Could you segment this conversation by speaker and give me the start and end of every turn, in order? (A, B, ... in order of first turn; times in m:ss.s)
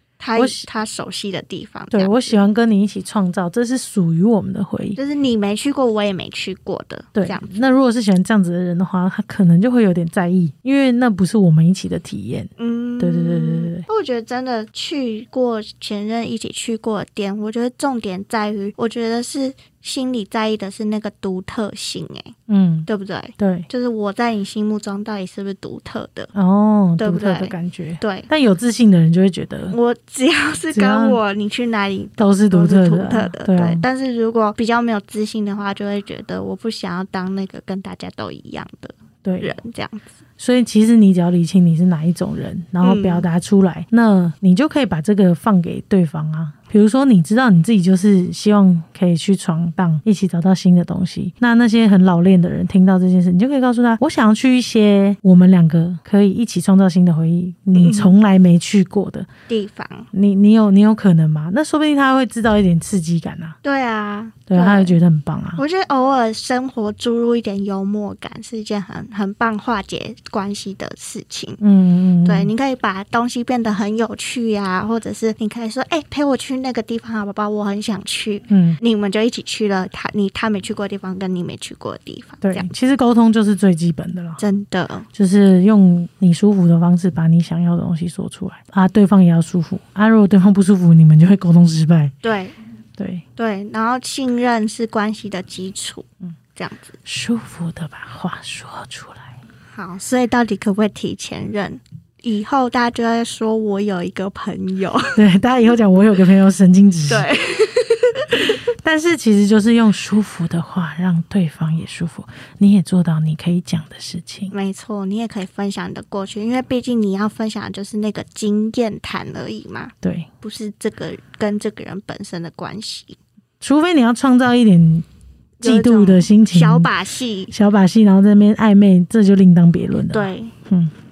0:00.2-0:02.4 A
0:00.4-0:00.7 B
0:01.9-0:05.0 B
0:05.0-0:07.7 A
0:07.1-0:13.9 B
0:12.6-0:22.4 A
0:22.5-0:23.7 B
0:22.9-0:26.3 A
0:26.3-0:29.8 B
0:27.0-0:28.3 A
0:29.7-0:40.1 A
0:30.7-0:31.2 B
0:32.2-0:33.8 B
0:39.2-0:39.5 B
0:40.4-0:59.3 B
0:42.8-0:43.2 A
0:57.7-0:58.1 A
0:59.5-1:00.1 A
1:00.1-1:03.6 B
1:03.6-1:04.9 A
1:04.5-1:05.6 B
1:05.6-1:11.6 A
1:11.6-1:12.5 B
1:12.2-1:22.7 A
1:18.5-1:18.8 B
1:22.4-1:24.4 B
1:24.4-1:25.1 A
1:25.1-1:32.1 B
1:32.2-1:32.6 A
1:33.0-1:33.2 B
1:33.4-1:37.0 A
1:37.0-1:39.4 B
1:39.7-1:45.2 A
1:45.2-1:47.3 B
1:47.1-1:48.6 A
1:48.3-1:54.5 B
1:54.5-2:03.2 A
2:00.0-2:00.3 B
2:03.6-2:05.0 B
2:05.6-2:07.5 A
2:05.6-2:06.9 B
2:07.5-2:10.9 B
2:10.1-2:10.5 A